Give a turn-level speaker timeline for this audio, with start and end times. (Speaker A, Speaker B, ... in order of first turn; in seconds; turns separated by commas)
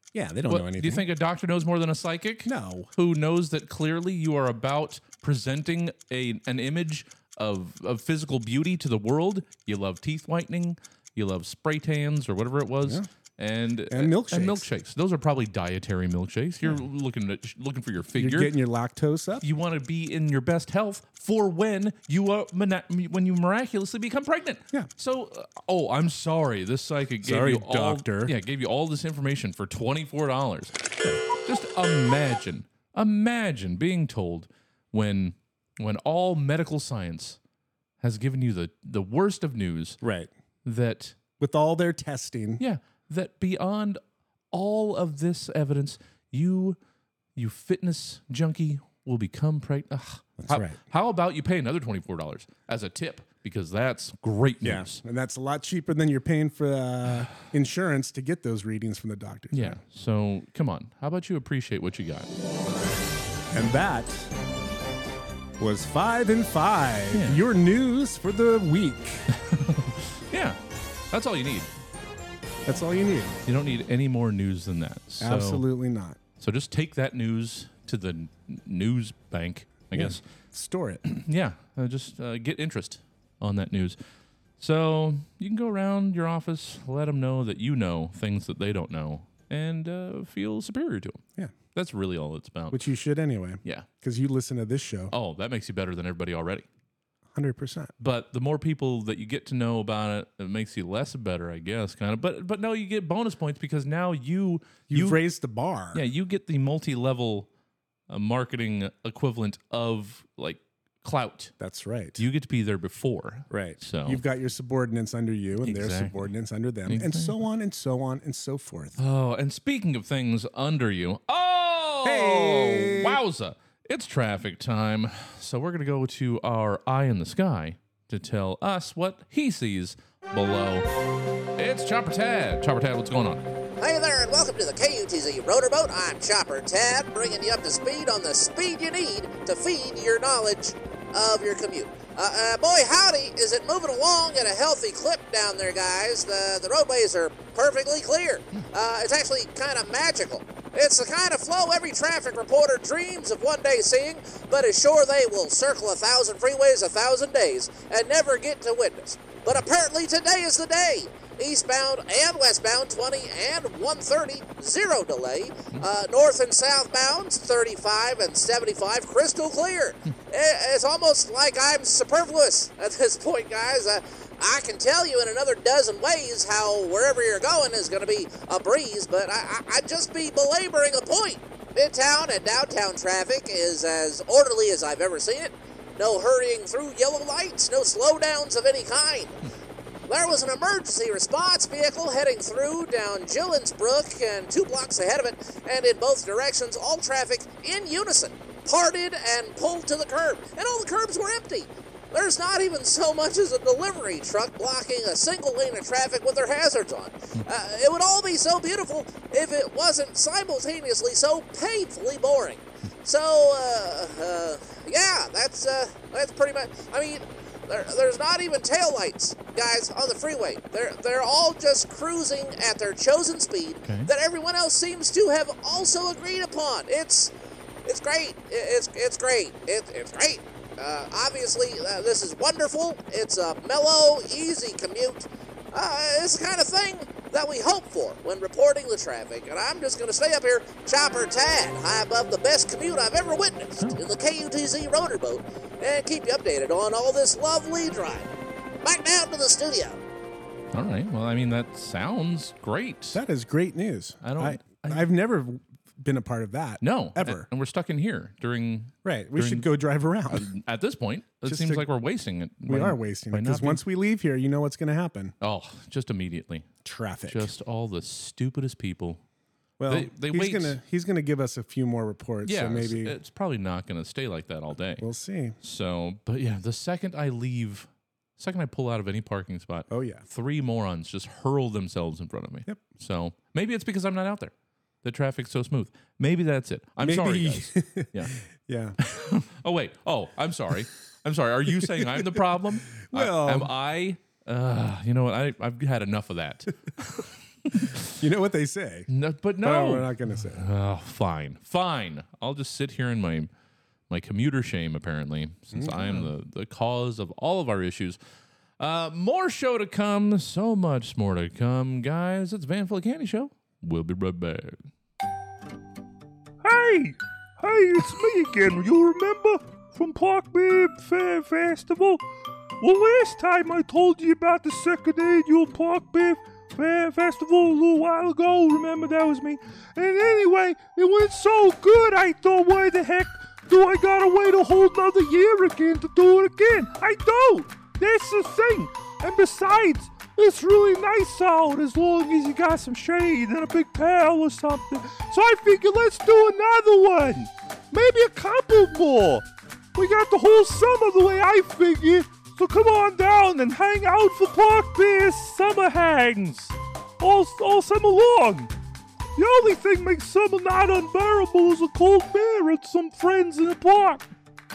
Speaker A: 0.1-1.0, Speaker B: 0.5-18.5, Speaker A: 2.4-2.9, Speaker A: 13.9-14.7, Speaker A: 18.1-19.4, Speaker B: 19.4-30.8, Speaker A: 27.2-28.3, Speaker B: 31.3-37.4, Speaker B: 38.0-40.0, Speaker A: 40.0-40.3, Speaker B: 40.6-41.2, Speaker A: 41.4-42.6, Speaker B: 42.6-44.0, Speaker B: 44.5-46.8, Speaker B: 47.3-55.0, Speaker A: 50.4-50.8, Speaker A: 54.6-59.8, Speaker B: 59.5-62.3, Speaker A: 63.5-64.3, Speaker A: 65.6-69.3, Speaker B: 67.1-67.4, Speaker B: 69.3-70.6, Speaker B: 71.1-71.7, Speaker A: 72.7-73.4, Speaker B: 73.5-75.6, Speaker A: 75.2-76.2, Speaker B: 76.4-80.2, Speaker A: 79.9-81.0, Speaker B: 81.1-84.0, Speaker B: 84.6-91.2, Speaker B: 91.7-92.8, Speaker A: 92.7-95.1, Speaker B: 95.1-96.7, Speaker A: 97.3-97.9, Speaker B: 98.0-105.2, Speaker A: 104.9-106.0, Speaker B: 105.9-107.5, Speaker B: 108.1-111.5, Speaker A: 111.6-112.2, Speaker B: 112.2-114.2, Speaker A: 113.5-119.0, Speaker B: 115.6-116.3, Speaker B: 116.9-117.4, Speaker B: 119.0-130.9, Speaker A: 122.0-123.2, Speaker B: 131.6-133.5, Speaker C: 133.8-189.4, Speaker C: 190.1-227.3, Speaker B: 223.8-224.1, Speaker C: 227.8-248.3, Speaker C: 248.8-250.0, Speaker B: 250.7-253.2, Speaker A: 253.1-257.4, Speaker B: 254.2-255.1, Speaker B: 256.8-259.7, Speaker A: 259.0-260.5, Speaker B: 260.3-263.8, Speaker A: 261.4-261.9, Speaker A: 262.6-265.3, Speaker B: 265.4-266.7, Speaker A: 266.8-267.5, Speaker B: 267.3-269.2, Speaker A: 269.8-273.1, Speaker B: 269.9-270.8, Speaker B: 272.4-275.1, Speaker A: 275.0-275.6, Speaker B: 275.6-277.9, Speaker B: 278.4-288.3, Speaker A: 279.9-280.2, Speaker A: 287.0-288.9, Speaker B: 289.0-298.1, Speaker A: 291.8-293.7, Speaker A: 298.1-299.1, Speaker B: 299.1-303.5, Speaker A: 299.6-300.6, Speaker B: 304.1-308.2, Speaker A: 305.7-306.3, Speaker B: 308.8-314.8, Speaker D: 316.6-322.2, Speaker D: 322.8-358.7, Speaker D: 359.4-364.2